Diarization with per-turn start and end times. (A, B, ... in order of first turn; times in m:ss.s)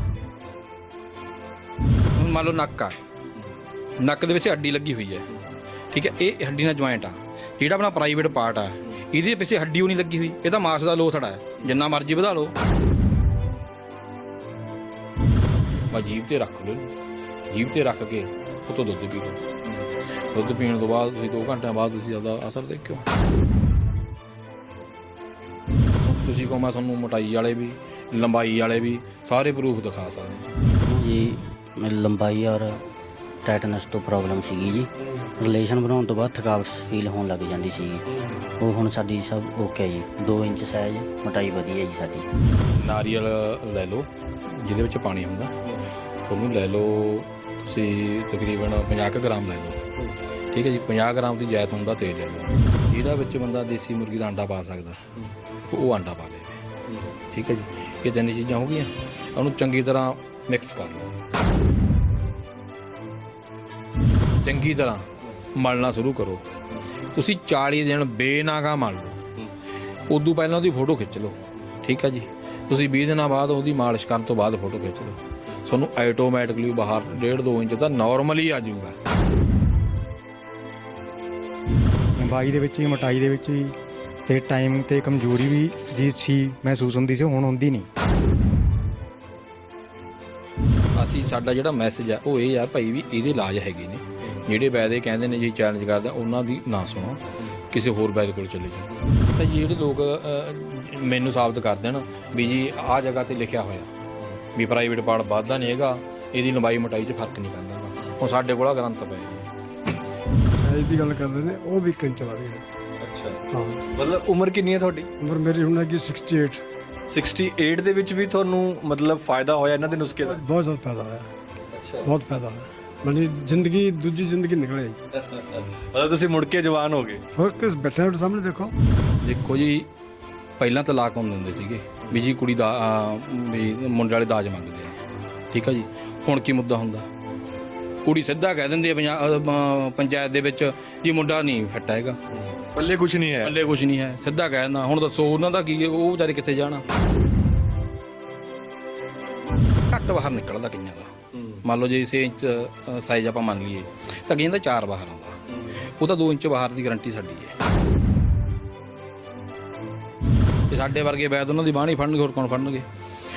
0:02.2-0:03.0 A
0:04.0-0:05.3 A
0:05.9-0:12.5 A
0:15.9-0:16.9 A
0:17.5-0:19.4 A
0:20.3-0:23.0 A
0:26.0-0:30.4 A
0:30.8-0:32.8 B
0:33.4-0:42.3 B
0:42.7-0:45.7 A
0:46.3-0:49.8 A
0:50.5-0:55.0 A
0:55.7-0:56.6 A
0:57.3-1:01.2 A
1:04.4-1:06.4 A
1:07.1-1:09.2 A
1:10.1-1:19.0 A
1:22.2-1:23.8 C
1:24.3-1:27.9 C
1:31.0-1:43.9 A
1:44.6-1:49.5 A
1:50.6-1:52.6 D
1:53.0-1:53.4 E
1:53.5-1:53.8 D
1:53.9-1:55.1 E
1:55.2-1:56.6 D
1:57.1-2:00.4 E
2:00.3-2:01.3 D
2:01.7-2:02.1 E
2:02.0-2:05.0 D
2:05.2-2:07.2 E
2:07.4-2:08.7 D
2:09.2-2:09.9 A
2:10.6-2:17.1 A
2:18.0-2:22.2 A
2:22.6-2:23.5 E
2:23.4-2:26.8 A
2:29.9-2:37.5 A
2:40.7-2:42.9 A